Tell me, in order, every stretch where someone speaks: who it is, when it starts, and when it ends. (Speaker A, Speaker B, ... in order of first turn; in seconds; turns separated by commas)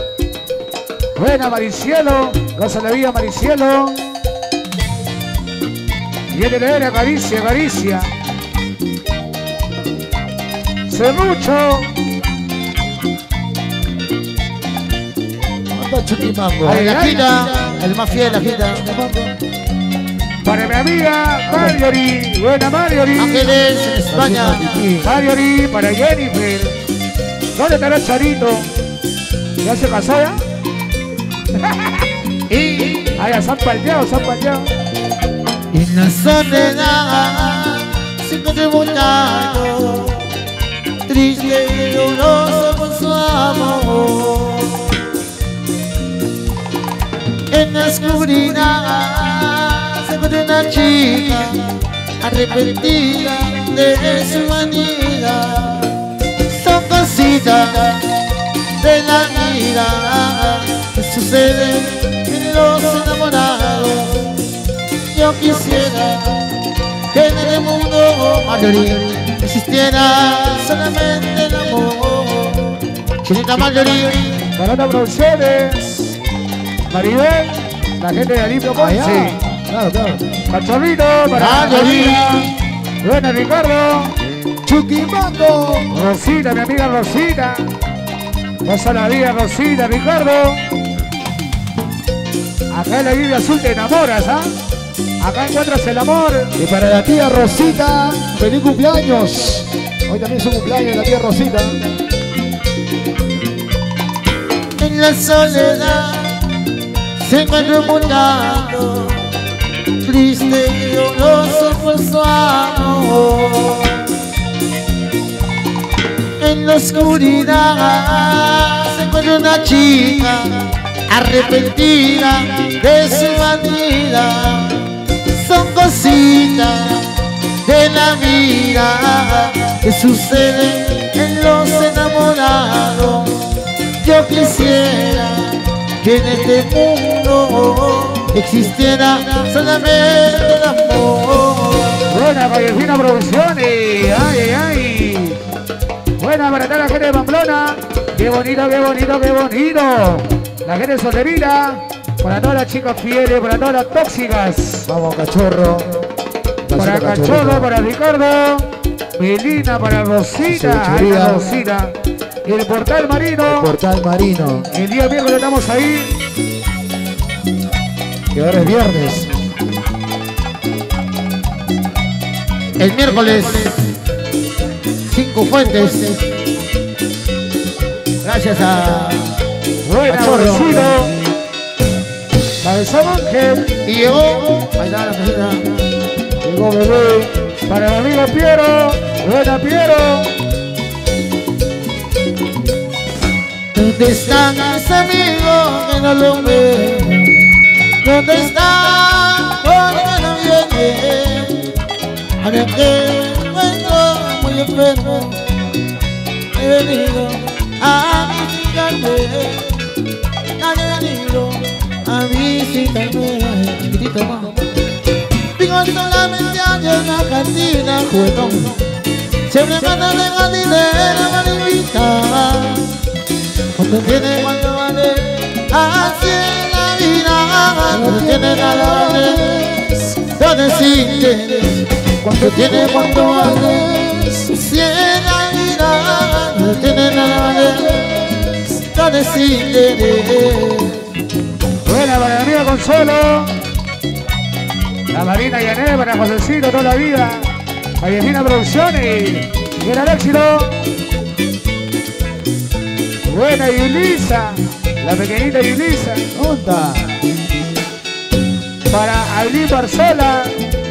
Speaker A: 1.1-4.0, Speaker A: 6.3-8.1, Speaker A: 10.9-11.9, Speaker B: 15.7-16.8, Speaker A: 16.6-17.3, Speaker C: 16.6-19.0, Speaker B: 18.9-19.3, Speaker A: 20.4-23.6, Speaker B: 21.4-21.8, Speaker C: 23.2-24.9, Speaker B: 24.1-25.1, Speaker A: 24.9-26.8, Speaker A: 27.5-28.7, Speaker A: 29.6-30.4, Speaker A: 31.6-32.0, Speaker C: 32.5-33.1, Speaker A: 33.1-34.7, Speaker C: 35.7-40.3, Speaker C: 41.1-45.0, Speaker C: 47.5-51.7, Speaker C: 52.2-58.0, Speaker C: 58.8-64.5, Speaker C: 65.1-66.4, Speaker C: 67.1-74.4, Speaker A: 74.5-75.9, Speaker A: 76.9-79.4, Speaker B: 78.7-80.2, Speaker A: 80.5-82.3, Speaker C: 81.3-82.5, Speaker A: 83.0-84.1, Speaker B: 84.6-85.9, Speaker A: 85.9-87.6, Speaker A: 88.6-90.6, Speaker A: 92.7-94.5, Speaker A: 95.2-96.5, Speaker B: 96.6-101.8, Speaker C: 104.8-106.4, Speaker C: 107.2-109.3, Speaker C: 110.0-114.2, Speaker C: 116.4-127.1, Speaker C: 127.6-133.4, Speaker C: 134.0-142.0, Speaker A: 142.1-145.4, Speaker A: 146.2-154.9, Speaker B: 154.9-156.0, Speaker B: 156.6-157.7, Speaker A: 156.7-163.7, Speaker B: 160.5-161.6, Speaker B: 163.4-164.7, Speaker A: 164.7-166.1, Speaker B: 168.3-169.4, Speaker C: 172.8-173.8, Speaker C: 175.1-176.2, Speaker C: 178.2-179.3, Speaker A: 179.8-181.1, Speaker C: 180.1-181.0, Speaker A: 182.6-183.7, Speaker C: 183.8-185.8, Speaker A: 186.4-190.3, Speaker C: 193.7-201.8, Speaker C: 202.4-205.4, Speaker C: 206.5-209.8, Speaker C: 210.6-214.6, Speaker C: 215.6-218.8, Speaker C: 219.5-222.9, Speaker C: 223.8-229.7, Speaker B: 227.9-230.2, Speaker C: 230.3-231.8, Speaker B: 232.2-234.5, Speaker C: 232.3-241.0, Speaker A: 241.8-243.5, Speaker A: 245.1-247.5, Speaker A: 248.0-250.8, Speaker A: 253.2-256.2, Speaker B: 256.3-257.2, Speaker A: 258.9-260.6